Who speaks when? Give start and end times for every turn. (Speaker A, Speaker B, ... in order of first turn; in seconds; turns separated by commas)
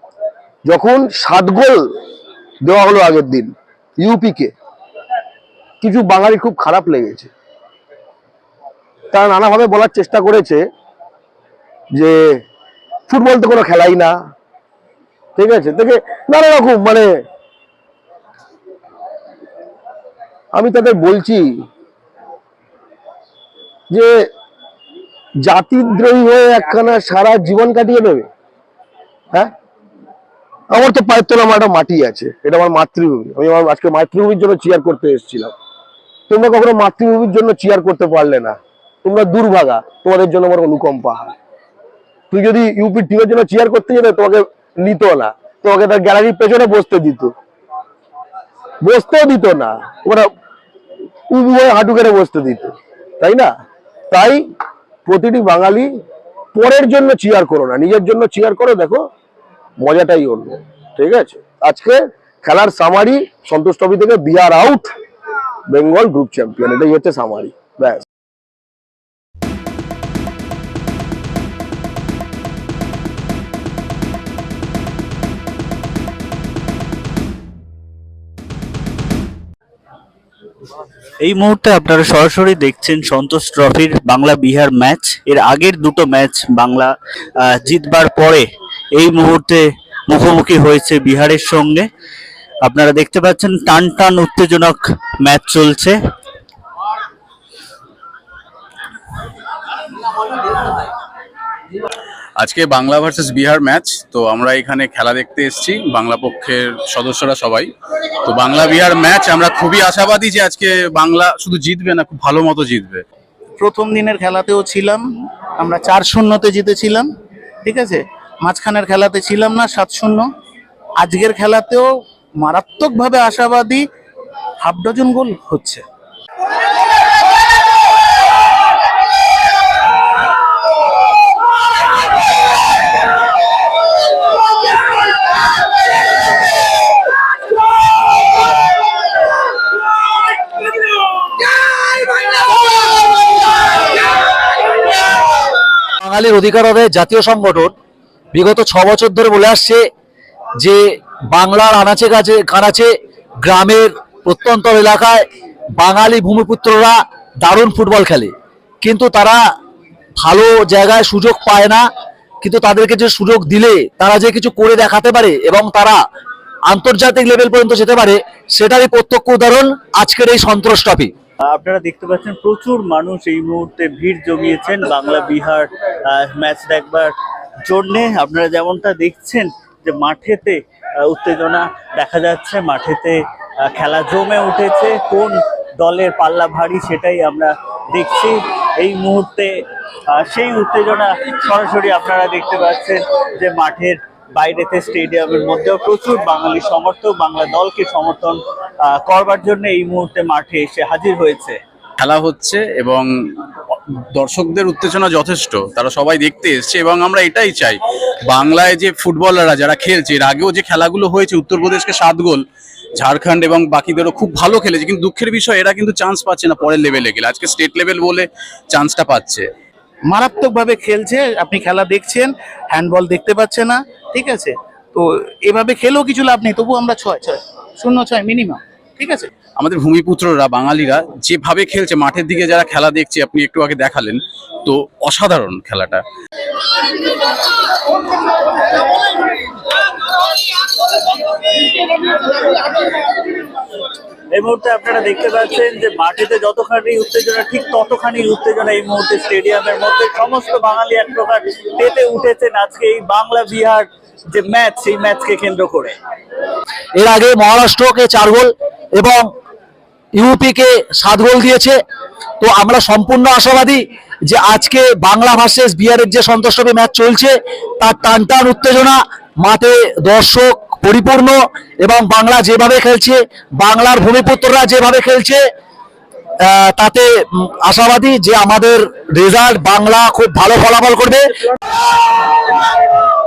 Speaker A: 0.6-1.9, Speaker A: 2.6-4.5, Speaker A: 5.8-7.3, Speaker A: 9.1-10.6, Speaker A: 11.9-12.3, Speaker A: 13.1-14.2, Speaker A: 15.4-17.1, Speaker A: 20.5-21.5, Speaker A: 23.9-24.3, Speaker A: 25.4-28.3, Speaker A: 30.7-35.5, Speaker A: 36.3-41.3, Speaker A: 42.3-47.3, Speaker A: 48.8-50.3, Speaker A: 51.3-53.5, Speaker A: 54.1-54.4, Speaker A: 55.0-55.9, Speaker A: 56.5-59.1, Speaker A: 59.8-64.9, Speaker A: 65.7-68.0, Speaker B: 81.2-91.9, Speaker B: 92.6-96.0, Speaker C: 102.4-107.7, Speaker C: 108.2-113.0, Speaker D: 113.6-115.0, Speaker D: 115.6-117.1, Speaker D: 117.6-120.3, Speaker D: 121.0-123.8, Speaker D: 124.6-125.8, Speaker E: 146.0-147.7, Speaker E: 148.3-149.8, Speaker E: 150.6-152.9, Speaker E: 153.4-155.2, Speaker E: 155.8-158.3, Speaker E: 158.8-159.4, Speaker E: 160.2-161.8, Speaker E: 162.4-166.0, Speaker E: 166.7-171.1, Speaker B: 171.4-177.1, Speaker B: 177.6-201.6, Speaker C: 202.0-212.4, Speaker C: 213.0-219.4, Speaker D: 220.1-229.3, Speaker C: 229.6-236.0, Speaker B: 244.3-255.9, Speaker E: 257.0-259.2, Speaker E: 260.2-261.7, Speaker E: 262.4-275.4, Speaker E: 276.4-281.2